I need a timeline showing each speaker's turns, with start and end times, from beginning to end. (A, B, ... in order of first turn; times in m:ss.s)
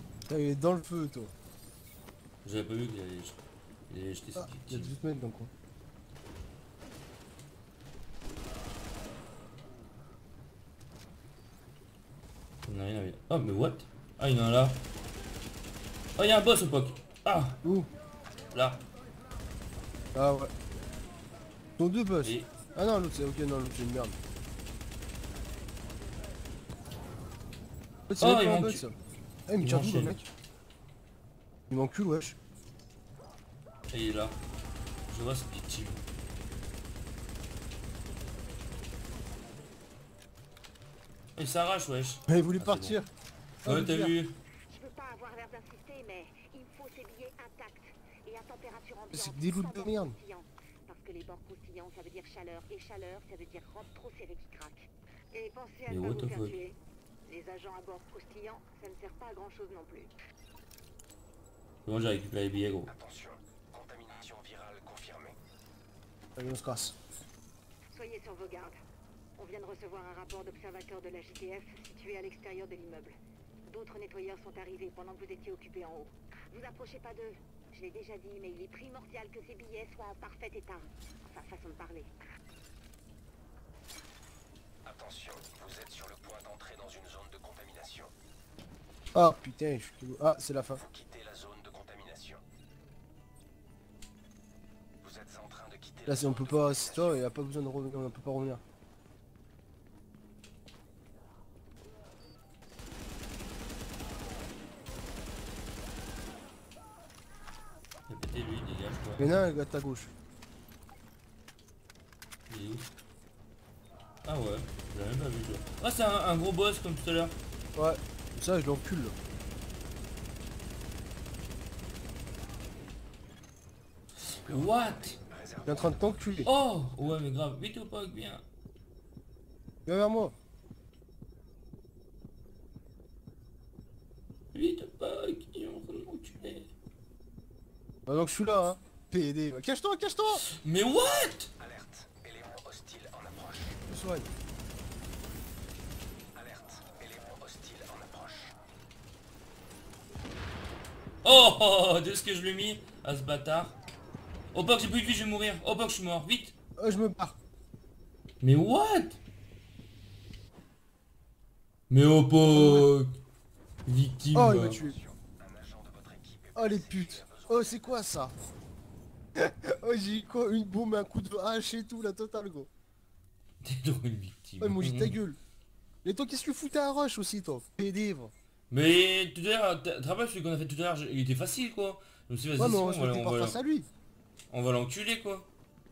0:00.3-0:01.3 A
0:02.4-0:04.9 B
0:04.4-0:05.5 A
0:12.6-0:14.8 B
0:16.2-0:17.6 B
0:17.6-0:17.9 A
0:18.5-0:18.8 B
0:20.1-0:20.5 A
0:21.8-0:24.2 A
0:22.2-0:22.5 B
0:28.1-0:28.9 A
0:28.2-0:28.9 B
0:29.5-0:30.2 A
0:29.6-0:30.2 B
0:31.7-0:32.4 A
0:33.9-0:34.4 B
0:35.1-0:36.0 B
0:41.4-0:43.0 B
0:42.3-0:43.1 A
0:43.6-0:44.4 B
0:43.6-0:44.1 A
0:44.7-1:00.1 C
0:49.1-0:50.2 A
0:55.9-0:56.6 B
1:01.8-1:02.9 B
1:02.9-1:05.4 D
1:06.4-1:07.0 A
1:07.9-1:08.8 C
1:09.4-1:22.1 C
1:24.8-1:28.1 D
1:29.1-1:30.8 A
1:30.8-1:32.4 D
1:35.0-1:37.1 D
1:36.0-1:38.6 A
1:48.1-1:49.4 B
1:49.2-1:50.1 A
1:52.5-1:52.9 B
1:54.2-1:57.4 B
1:57.7-1:59.2 A
2:04.2-2:05.2 B
2:05.6-2:06.5 A
2:06.4-2:08.4 B
2:09.8-2:10.3 A
2:14.5-2:16.7 B
2:18.0-2:20.4 A
2:20.5-2:21.5 B
2:21.6-2:23.8 D
2:23.9-2:24.3 A
2:26.4-2:28.5 D
2:31.2-2:33.8 B
2:34.5-2:36.5 B
2:36.8-2:37.4 A
2:38.4-2:39.2 B
2:41.9-2:43.2 B
2:42.5-2:42.9 A
2:43.8-2:44.8 B
2:44.3-2:45.0 A
2:45.0-2:47.8 D
2:46.5-2:48.4 A
2:49.4-2:52.7 A
2:53.6-2:55.2 B
2:54.6-2:55.4 A
2:56.0-2:58.3 A
2:58.7-3:03.6 B
3:02.6-3:03.9 A
3:04.5-3:05.5 B